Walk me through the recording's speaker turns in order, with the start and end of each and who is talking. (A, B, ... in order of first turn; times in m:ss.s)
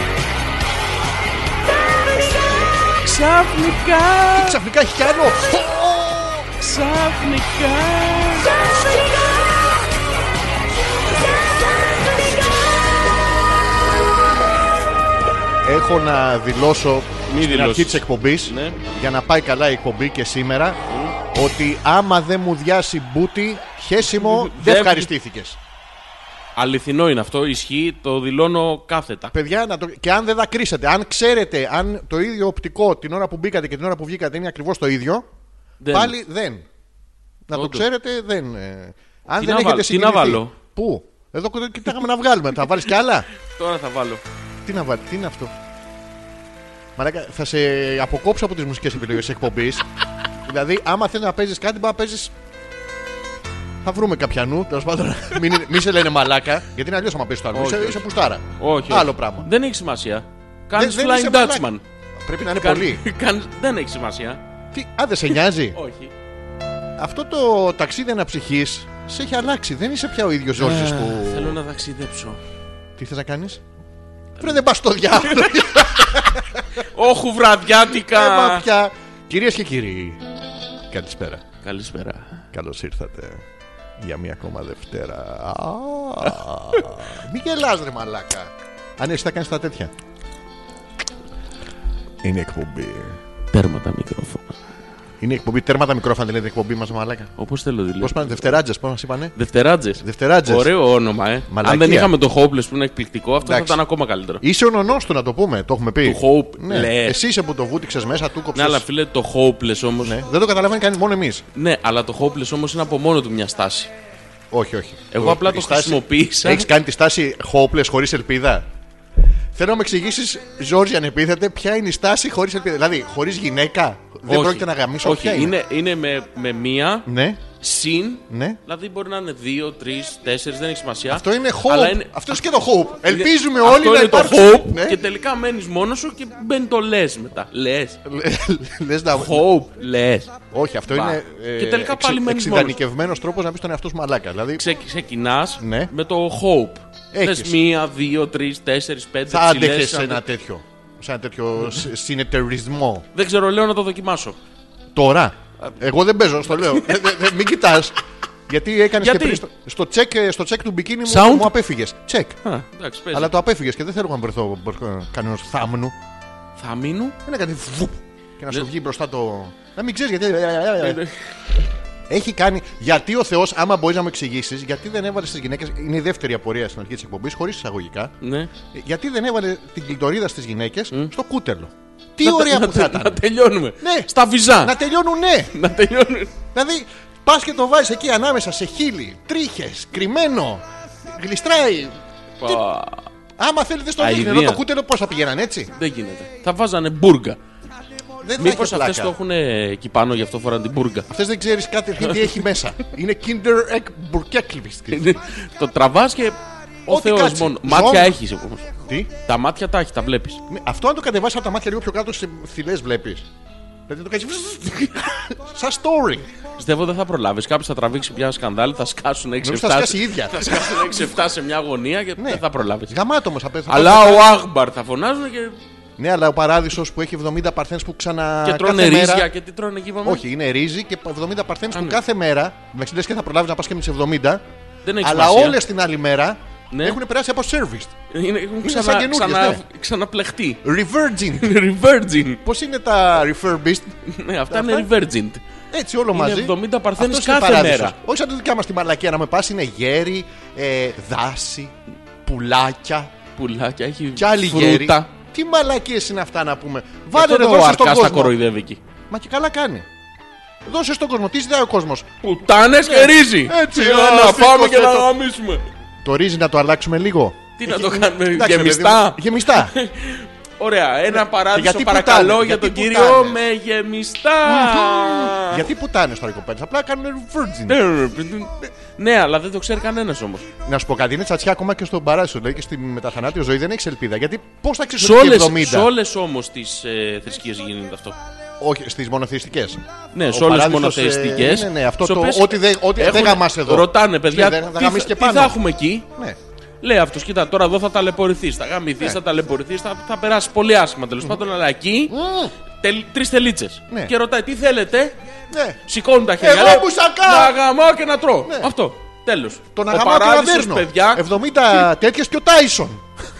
0:03.0-0:04.6 A
0:04.3-0:06.5 B
0:06.6-0:08.5 A
0:15.6-0:20.8 B
0:17.3-0:18.8 A
0:20.9-0:21.1 A
0:21.3-0:25.6 B
0:24.0-0:25.1 A
0:26.6-0:29.3 A
0:29.3-0:35.2 B
0:35.8-0:36.2 A
0:35.9-0:36.6 B
0:37.5-0:43.3 B
0:37.5-0:37.8 A
0:39.4-0:40.5 A
0:43.5-0:44.2 A
0:44.6-0:45.5 B
0:47.0-0:49.9 B
0:50.4-0:52.3 B
0:53.8-0:59.5 B
0:57.5-0:58.0 A
0:58.6-1:01.8 A
1:00.7-1:01.7 B
1:02.2-1:03.0 B
1:02.6-1:04.4 A
1:04.7-1:05.8 B
1:05.7-1:06.1 A
1:07.0-1:11.6 B
1:10.5-1:12.4 A
1:13.0-1:13.6 B
1:14.4-1:16.6 B
1:15.2-1:16.2 A
1:16.8-1:18.7 A
1:17.9-1:20.2 B
1:20.9-1:21.4 B
1:21.6-1:22.5 A
1:22.5-1:23.4 B
1:24.0-1:29.9 B
1:32.2-1:33.2 B
1:33.5-1:34.6 A
1:35.2-1:37.3 B
1:37.4-1:38.6 A
1:38.0-1:39.3 B
1:39.3-1:44.4 A
1:40.0-1:40.7 B
1:41.5-1:42.1 B
1:43.4-1:43.8 B
1:44.4-1:48.8 B
1:46.0-1:47.2 A
1:48.5-1:50.2 A
1:50.0-1:51.4 B
1:51.5-1:53.9 A
1:54.5-1:58.7 B
1:55.1-1:56.7 A
1:59.5-2:05.5 B
2:04.3-2:07.1 A
2:07.0-2:07.4 B
2:07.6-2:12.4 A
2:08.3-2:08.6 B
2:11.1-2:15.0 B
2:13.0-2:18.0 A
2:18.0-2:19.5 B
2:19.1-2:20.3 A
2:20.5-2:24.7 B
2:20.9-2:22.8 A
2:24.6-2:30.2 A
2:25.6-2:25.9 B
2:27.1-2:27.6 B
2:29.3-2:33.0 B
2:33.1-2:34.4 A
2:34.9-2:42.4 B
2:39.0-2:39.4 A
2:41.0-2:41.5 A
2:42.4-2:43.3 A
2:43.1-2:45.9 B
2:46.6-2:47.2 A
2:47.2-2:51.0 B
2:50.8-2:51.3 A
2:52.1-2:58.1 B
2:58.2-2:58.5 A
2:58.7-3:03.2 B
3:02.2-3:04.7 A
3:03.8-3:05.5 B
3:05.5-3:06.3 A
3:06.5-3:12.6 B
3:12.4-3:13.1 A
3:13.4-3:15.7 B
3:14.0-3:14.6 A
3:15.7-3:17.4 A
3:18.2-3:19.1 B
3:18.4-3:21.1 A
3:21.1-3:25.2 B
3:22.0-3:22.3 A
3:24.9-3:28.7 A
3:26.9-3:28.2 B
3:29.2-3:30.4 A
3:30.5-3:33.3 B
3:33.9-3:36.3 B
3:36.6-3:43.0 A
3:39.4-3:41.1 B
3:42.2-3:44.4 B
3:43.7-3:45.6 A
3:46.0-3:49.3 B
3:48.4-3:50.2 A
3:50.0-3:54.4 B
3:51.7-3:52.0 A
3:54.8-3:55.6 A
3:55.0-3:57.9 B
3:56.7-3:57.0 A
3:58.1-4:00.6 A
3:58.6-3:59.6 B
4:00.6-4:01.5 B
4:01.4-4:02.4 A
4:02.4-4:04.0 B
4:04.0-4:05.4 A
4:04.5-4:04.9 B
4:05.7-4:13.1 B
4:06.1-4:07.9 A
4:13.4-4:15.1 A
4:14.2-4:18.4 B
4:17.1-4:18.8 A
4:19.1-4:19.9 B
4:20.6-4:22.1 B
4:22.2-4:25.6 A
4:22.8-4:25.1 B
4:26.0-4:29.7 B
4:27.6-4:35.7 A
4:31.1-4:33.4 B
4:34.4-4:37.8 B
4:37.7-4:40.5 A
4:40.6-4:45.9 B
4:45.0-4:48.2 A
4:48.6-4:55.6 B
4:50.1-4:56.1 A
4:56.8-5:02.2 A
5:02.1-5:02.5 B
5:02.7-5:05.1 A
5:05.5-5:05.8 B
5:05.8-5:11.3 A
5:06.4-5:07.6 B
5:08.4-5:08.7 B
5:09.7-5:13.1 B